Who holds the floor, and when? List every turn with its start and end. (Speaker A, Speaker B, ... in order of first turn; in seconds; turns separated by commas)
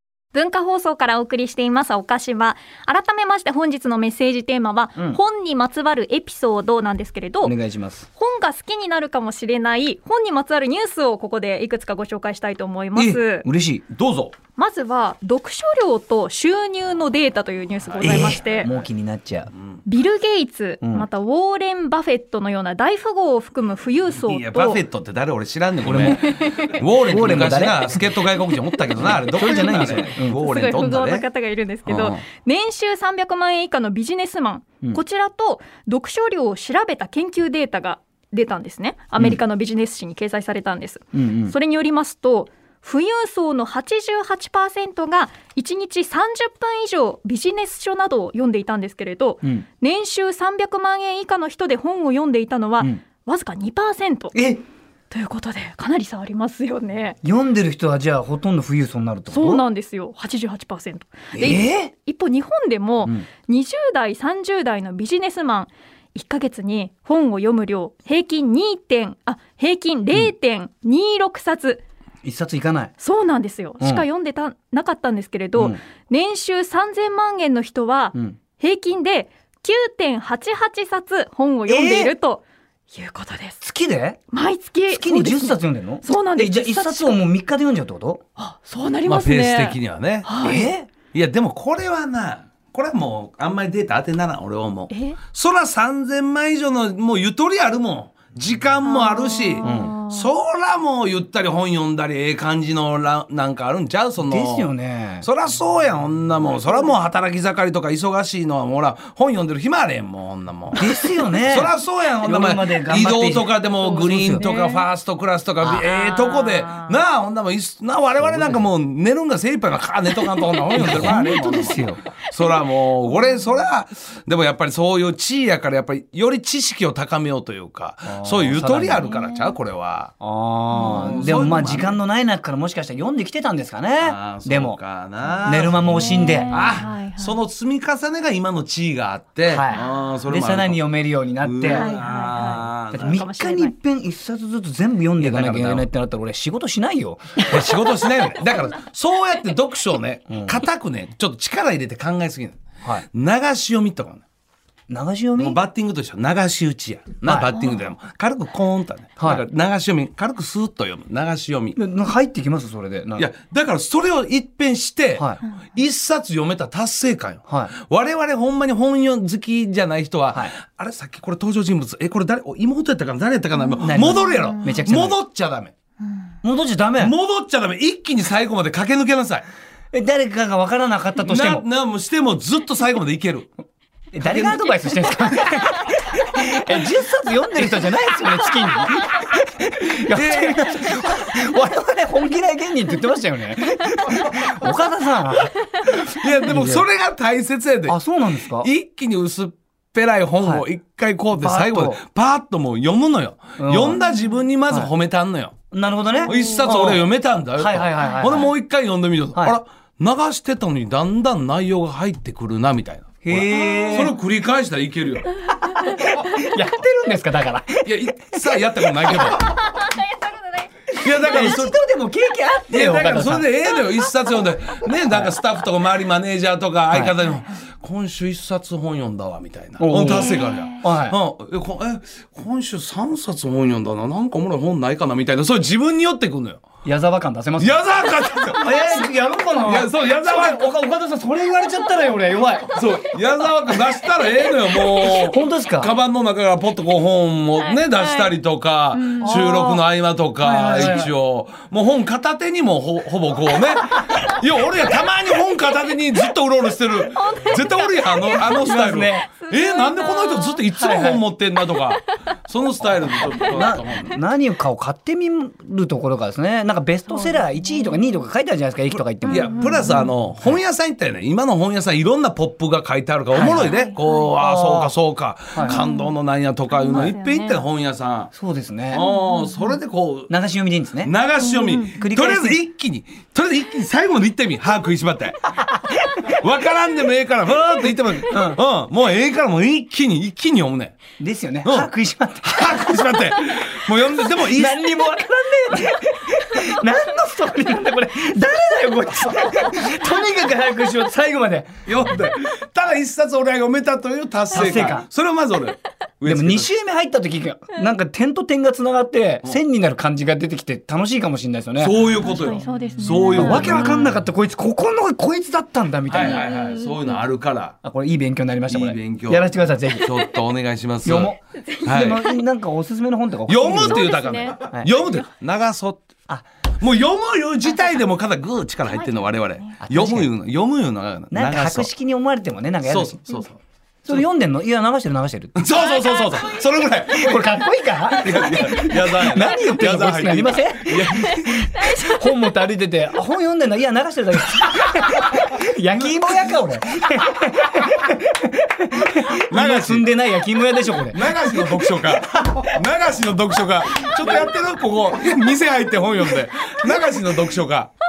Speaker A: 0.3-7.5, Speaker B: 7.4-8.1, Speaker A: 8.2-13.4, Speaker B: 12.9-13.8, Speaker C: 13.9-14.3, Speaker A: 14.6-18.7, Speaker C: 17.9-18.7, Speaker B: 18.0-19.5, Speaker A: 19.9-24.8, Speaker B: 20.8-21.1, Speaker C: 24.1-31.2, Speaker B: 25.8-26.3, Speaker A: 26.2-26.8, Speaker B: 27.1-28.1, Speaker B: 29.0-30.4, Speaker A: 29.4-54.4, Speaker C: 31.9-32.2, Speaker B: 41.1-41.5, Speaker B: 54.3-54.6, Speaker A: 55.1-57.2, Speaker B: 57.2-59.6, Speaker A: 59.3-71.8, Speaker B: 61.3-61.9, Speaker B: 72.2-72.9, Speaker A: 73.0-83.6, Speaker B: 73.8-74.0, Speaker B: 75.5-75.8, Speaker B: 81.7-82.1, Speaker B: 83.6-84.2, Speaker A: 84.3-87.2, Speaker B: 84.9-88.2, Speaker A: 88.4-90.7, Speaker C: 89.0-130.1, Speaker B: 90.4-90.9, Speaker A: 94.9-95.2, Speaker A: 98.8-100.3, Speaker B: 99.6-100.0, Speaker B: 104.2-105.3, Speaker B: 110.8-114.4, Speaker A: 113.8-114.8, Speaker A: 115.6-117.0, Speaker B: 118.2-118.7, Speaker B: 120.7-122.0, Speaker B: 128.1-129.1, Speaker A: 128.9-129.6, Speaker B: 130.2-134.8, Speaker A: 130.7-131.3, Speaker C: 130.8-132.0, Speaker C: 134.0-140.8, Speaker B: 135.4-136.7, Speaker A: 135.8-137.4, Speaker B: 139.5-142.0, Speaker C: 141.4-143.2, Speaker A: 141.6-143.7, Speaker B: 142.9-147.9, Speaker C: 145.2-145.8, Speaker C: 147.4-152.6, Speaker B: 150.3-150.6, Speaker C: 153.1-154.2, Speaker B: 154.9-155.6, Speaker C: 155.3-161.8, Speaker B: 157.2-157.6, Speaker B: 159.2-159.4, Speaker B: 161.8-163.3, Speaker C: 163.2-175.7, Speaker A: 173.6-174.8, Speaker B: 173.8-175.2, Speaker B: 176.4-177.2, Speaker C: 177.0-179.4, Speaker B: 179.9-181.7, Speaker C: 181.2-183.5, Speaker B: 184.1-195.8, Speaker C: 184.2-184.7, Speaker C: 190.1-190.9, Speaker C: 195.8-198.0, Speaker B: 196.4-196.9, Speaker B: 197.9-198.7, Speaker C: 198.5-205.6, Speaker B: 201.4-202.0, Speaker B: 203.6-204.0, Speaker B: 205.7-207.0, Speaker C: 206.2-215.3, Speaker B: 207.6-208.5, Speaker B: 213.2-214.1, Speaker A: 213.6-214.0, Speaker B: 215.7-219.4, Speaker C: 217.8-219.6, Speaker A: 219.4-220.7, Speaker C: 221.0-221.8, Speaker B: 221.0-224.1, Speaker C: 222.7-236.6, Speaker B: 225.1-225.3, Speaker B: 229.8-231.2, Speaker A: 230.1-230.8, Speaker B: 236.8-237.8, Speaker C: 237.6-238.8, Speaker B: 238.5-242.8, Speaker C: 239.6-240.6, Speaker C: 242.7-264.2, Speaker B: 244.8-245.9, Speaker A: 247.6-248.3, Speaker A: 248.9-249.8, Speaker B: 249.2-249.8, Speaker B: 250.4-251.1, Speaker A: 257.1-258.7, Speaker B: 258.4-259.3, Speaker A: 259.4-260.6, Speaker B: 260.7-261.2, Speaker A: 263.1-263.7, Speaker B: 263.3-269.9, Speaker A: 267.1-268.2, Speaker C: 268.9-278.3, Speaker A: 269.2-270.1, Speaker B: 273.3-273.8, Speaker A: 273.4-274.3, Speaker B: 274.3-274.9, Speaker B: 275.5-275.8, Speaker A: 275.6-276.1, Speaker A: 276.7-277.6, Speaker B: 276.9-277.1, Speaker B: 278.3-279.0, Speaker C: 278.9-280.3, Speaker A: 279.0-279.8, Speaker B: 280.3-281.1, Speaker C: 281.0-285.6, Speaker A: 281.4-281.9, Speaker B: 281.9-282.6, Speaker B: 285.5-286.2, Speaker C: 286.2-291.0, Speaker B: 288.3-288.6, Speaker B: 291.2-293.3, Speaker C: 292.4-294.9, Speaker B: 294.3-301.9, Speaker C: 301.9-306.7, Speaker B: 304.5-305.1, Speaker B: 306.2-312.2, Speaker C: 311.8-314.2, Speaker A: 312.1-314.1, Speaker B: 313.3-316.5, Speaker C: 316.1-317.7, Speaker A: 316.2-317.2, Speaker B: 317.8-320.2, Speaker C: 318.7-322.3, Speaker B: 321.0-324.1, Speaker A: 321.7-322.4, Speaker C: 323.5-326.0, Speaker A: 323.7-325.2, Speaker C: 326.8-331.9, Speaker A: 328.9-329.8, Speaker B: 329.8-330.3, Speaker B: 331.3-333.2, Speaker C: 332.8-334.2, Speaker B: 334.0-335.6, Speaker C: 335.6-341.6, Speaker A: 335.8-336.5, Speaker B: 337.0-352.8, Speaker A: 341.8-342.2, Speaker C: 349.5-350.1, Speaker C: 351.1-357.9, Speaker B: 354.1-354.5